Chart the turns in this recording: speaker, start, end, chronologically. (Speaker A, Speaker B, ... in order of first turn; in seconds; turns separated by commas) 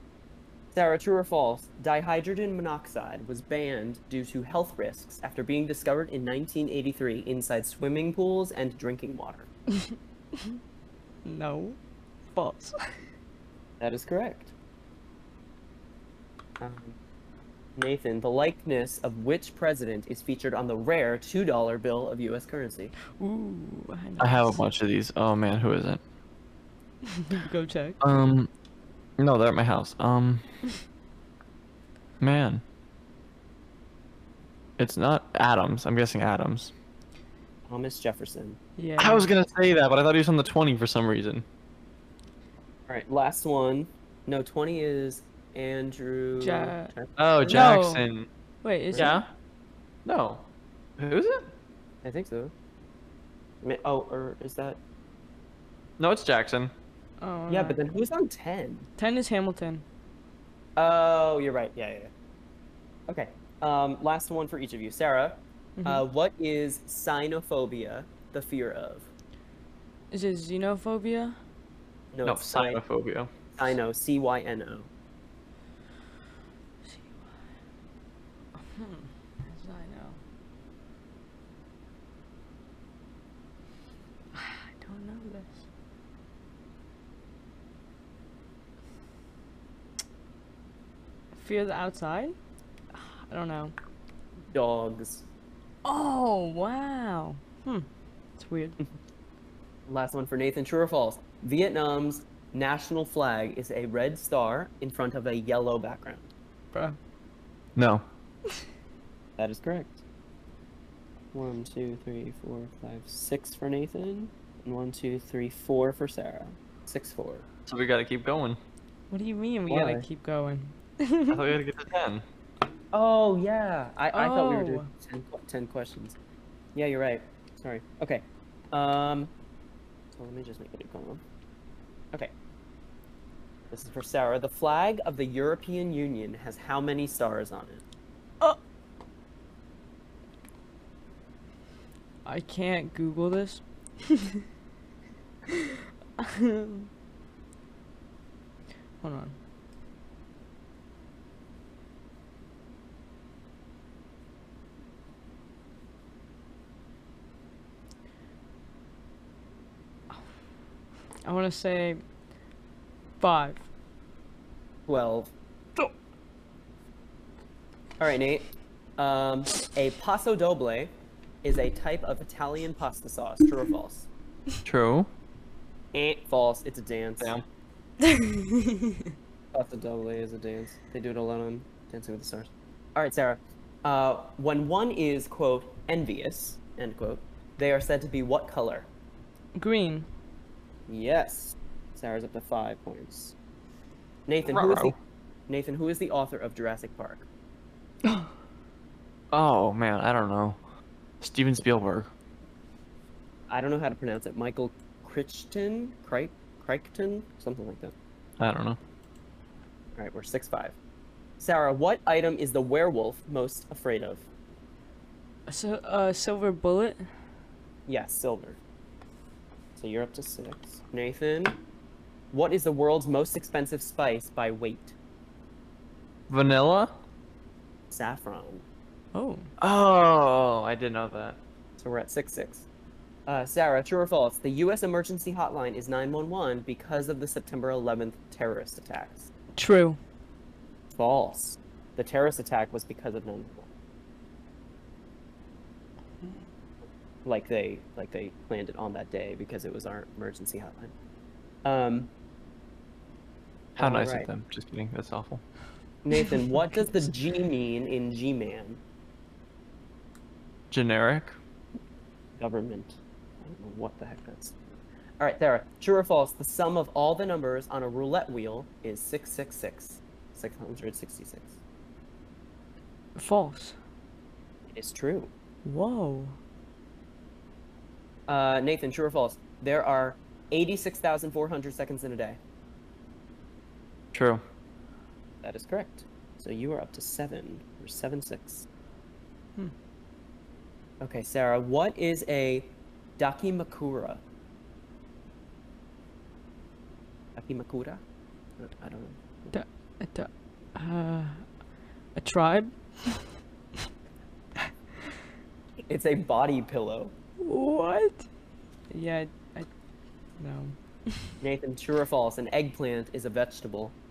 Speaker A: 0.7-9.5, Speaker B: 11.2-11.8, Speaker B: 12.3-13.0, Speaker A: 13.8-14.5, Speaker A: 16.6-17.0, Speaker A: 17.8-22.9, Speaker B: 23.2-24.6, Speaker C: 24.2-26.0, Speaker B: 27.1-28.0, Speaker C: 28.0-28.5, Speaker C: 29.2-30.4, Speaker C: 32.2-32.6, Speaker C: 34.8-36.7, Speaker A: 37.7-38.6, Speaker B: 38.8-39.3, Speaker C: 39.0-41.4, Speaker A: 42.9-47.7, Speaker B: 46.4-46.9, Speaker C: 47.2-48.3, Speaker B: 47.4-48.0, Speaker B: 48.6-49.1, Speaker A: 48.9-49.2, Speaker C: 48.9-49.3, Speaker C: 50.0-50.4, Speaker C: 51.0-51.5, Speaker A: 52.0-52.5, Speaker A: 53.6-54.8, Speaker C: 56.0-56.7, Speaker B: 57.2-57.8, Speaker A: 57.5-58.9, Speaker B: 59.0-59.8, Speaker A: 60.8-62.1, Speaker A: 63.1-69.1, Speaker B: 65.8-66.0, Speaker B: 70.1-71.3, Speaker A: 72.1-72.8, Speaker C: 72.2-73.3, Speaker A: 73.5-74.9, Speaker B: 76.9-77.2, Speaker B: 78.7-80.2, Speaker B: 84.3-85.6, Speaker B: 91.3-92.3, Speaker B: 92.9-93.7, Speaker A: 94.5-95.2, Speaker B: 95.8-98.8, Speaker A: 99.9-106.3, Speaker C: 107.8-108.0, Speaker A: 109.4-110.0, Speaker A: 111.3-117.4, Speaker C: 117.7-118.6, Speaker B: 119.1-121.4, Speaker A: 119.7-120.0, Speaker C: 121.3-122.2, Speaker A: 122.9-126.2, Speaker B: 124.1-124.9, Speaker A: 126.7-129.3, Speaker A: 130.2-131.2, Speaker A: 133.7-137.8, Speaker B: 142.2-144.3, Speaker B: 146.2-146.9, Speaker B: 149.0-149.3, Speaker B: 161.2-162.0, Speaker B: 163.2-163.6, Speaker A: 164.9-165.3, Speaker A: 168.0-174.1, Speaker C: 174.6-175.1, Speaker A: 175.9-177.3, Speaker B: 178.0-179.0, Speaker A: 179.5-188.9, Speaker B: 189.6-190.1, Speaker A: 190.9-193.3, Speaker A: 194.3-194.9, Speaker C: 194.4-194.9, Speaker A: 195.5-197.3, Speaker C: 199.3-200.6, Speaker C: 201.2-202.1, Speaker A: 203.5-207.9, Speaker C: 208.4-208.8, Speaker A: 209.9-210.8, Speaker A: 211.4-214.2, Speaker B: 215.5-217.0, Speaker A: 217.9-218.6, Speaker A: 219.8-221.6, Speaker A: 222.3-224.9, Speaker C: 226.3-226.9, Speaker A: 227.9-228.6, Speaker B: 229.1-229.5, Speaker C: 229.6-231.4, Speaker A: 231.8-232.7, Speaker A: 233.2-239.3, Speaker B: 239.6-240.0, Speaker A: 240.9-243.7, Speaker A: 247.2-250.9, Speaker A: 251.6-252.1, Speaker C: 253.8-255.4, Speaker A: 253.8-254.3, Speaker A: 256.0-258.8, Speaker C: 260.7-261.3, Speaker A: 262.4-271.6, Speaker B: 273.1-273.8, Speaker A: 274.7-275.3, Speaker B: 275.6-276.4, Speaker A: 278.3-282.4, Speaker C: 284.1-284.4, Speaker A: 285.4-288.6, Speaker A: 291.0-294.2, Speaker A: 297.3-298.0, Speaker A: 298.6-299.5, Speaker B: 299.5-301.4, Speaker B: 302.1-303.2, Speaker A: 305.9-307.1, Speaker B: 307.4-308.2, Speaker B: 308.9-309.7, Speaker B: 310.4-311.2, Speaker A: 311.4-313.9